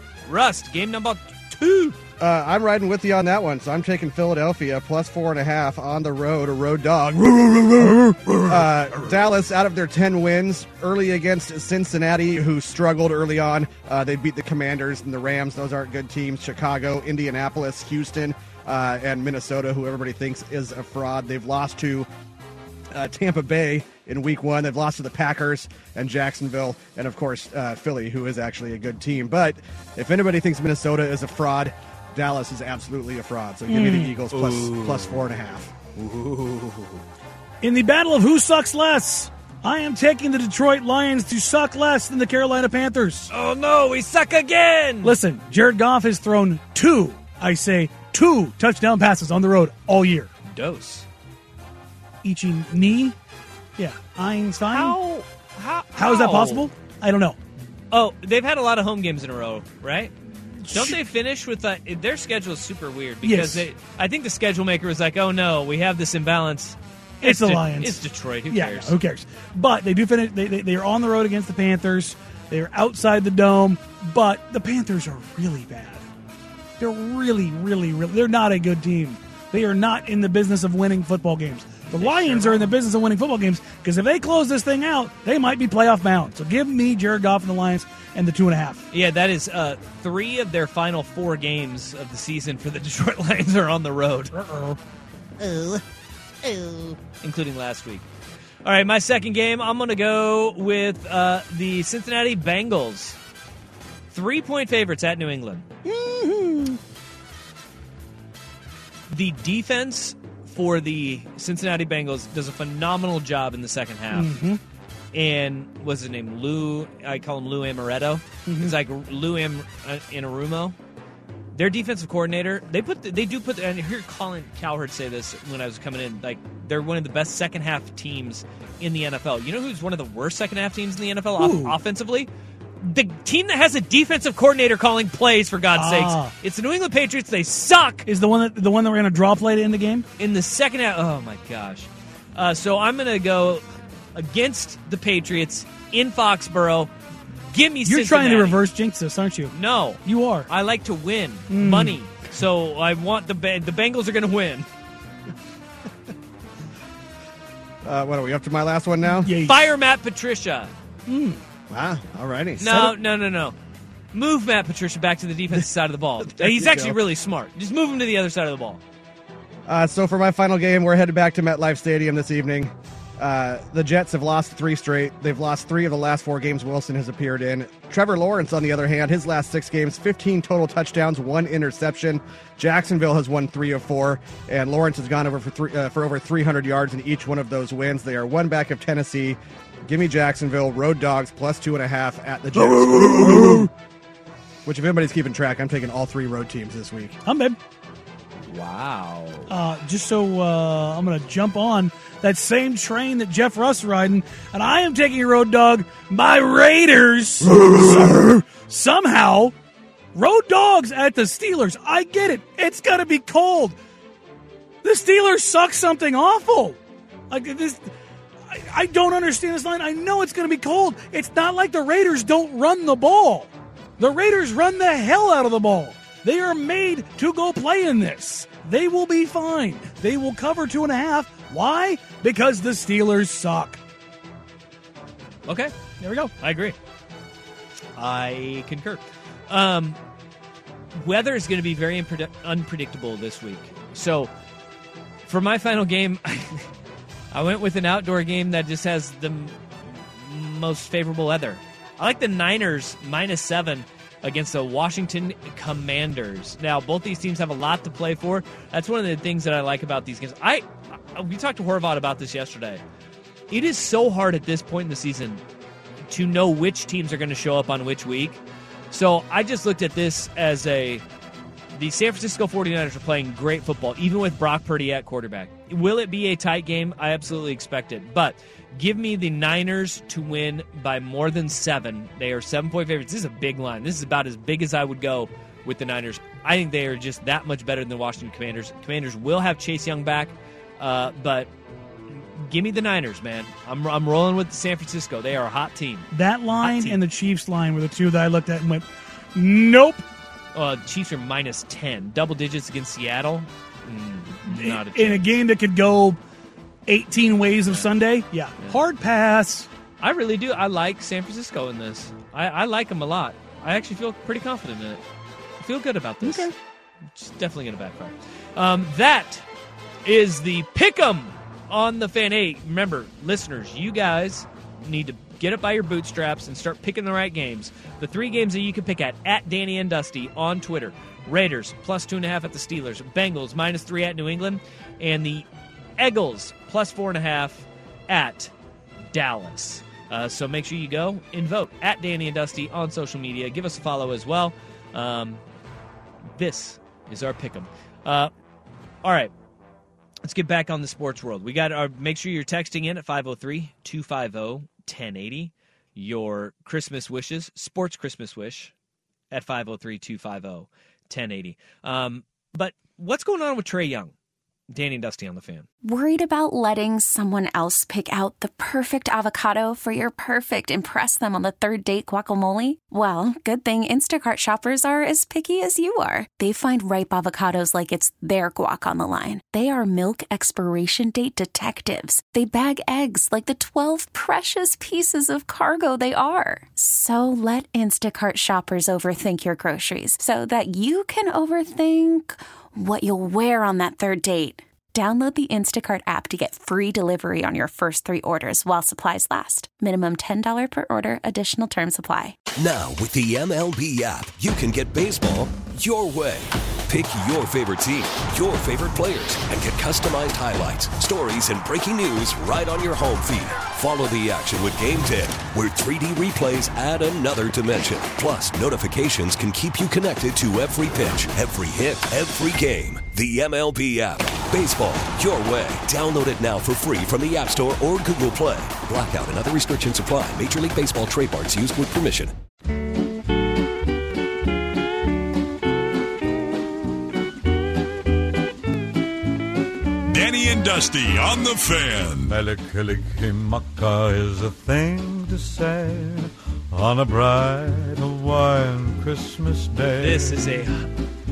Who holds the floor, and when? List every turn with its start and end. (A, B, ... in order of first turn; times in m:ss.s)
0:00.2-0:02.0 A
0:02.2-0:22.1 B
0:22.9-0:36.9 B
0:33.7-0:34.2 C
0:34.3-0:35.2 A
0:36.0-0:36.6 A
0:37.6-0:43.3 C
0:43.3-0:45.2 A
0:45.0-0:50.3 C
0:50.4-0:51.1 A
0:52.2-0:53.2 C
0:53.8-0:55.0 C
0:54.7-0:56.7 A
0:55.9-0:57.4 C
0:57.9-1:00.1 A
1:00.6-1:01.0 C
1:00.7-1:09.0 A
1:03.2-1:03.6 C
1:07.2-1:16.0 C
1:16.8-1:28.9 C
1:21.9-1:22.7 A
1:28.9-1:34.3 A
1:34.3-1:34.8 C
1:35.5-1:35.7 C
1:36.4-1:36.8 C
1:37.2-1:38.0 A
1:38.6-1:43.2 A
1:44.1-1:45.7 A
1:45.8-1:46.8 C
1:49.1-1:54.3 A
1:54.1-1:54.6 C
1:55.1-2:00.8 A
1:58.4-1:58.8 C
2:01.5-2:18.0 A
2:11.4-2:11.8 C
2:15.7-2:16.3 C
2:18.0-2:20.1 C
2:20.2-2:23.6 A
2:24.1-2:26.9 A
2:27.5-2:28.6 A
2:27.8-2:30.5 C
2:29.5-2:34.7 A
2:31.5-2:32.0 C
2:37.8-2:39.3 B
2:39.2-2:39.7 C
2:39.4-2:40.7 A
2:41.1-2:41.4 C
2:41.7-2:42.9 B
2:42.6-2:43.6 A
2:44.1-2:48.8 A
2:46.2-2:47.0 B
2:49.6-3:13.7 B
3:12.5-3:13.7 C
3:14.6-3:17.2 B
3:17.2-3:17.6 C
3:18.4-3:19.5 A
3:19.5-3:29.5 C
3:30.1-3:33.8 C
3:34.8-3:36.8 C
3:37.3-3:37.9 C
3:38.5-3:53.8 C
3:55.4-3:55.7 A
3:56.0-3:56.3 C
3:56.4-3:56.8 A
3:58.0-4:00.0 A
4:00.9-4:04.3 A
4:05.2-4:06.7 A
4:07.3-4:22.8 A
4:23.5-4:25.4 A
4:26.1-4:31.0 A
4:31.7-4:51.5 A
4:52.1-4:57.0 A
4:56.1-5:00.0 C
5:00.5-5:05.3 A
5:04.4-5:06.2 C
5:06.9-5:09.7 C
5:10.0-5:15.0 A
5:15.6-5:16.5 A
5:16.2-5:16.5 C
5:17.1-5:19.4 A
5:20.0-5:35.5 A
5:36.0-5:38.5 A
5:39.1-5:45.4 A
5:46.3-5:48.3 A
5:49.0-5:49.3 A
5:50.2-5:58.7 A
5:59.3-6:04.1 A
6:04.7-6:05.6 A
6:05.8-6:42.4 D
6:42.6-7:12.3 E
7:20.1-7:22.3 F
7:22.3-7:30.6 G
7:30.0-7:30.9 A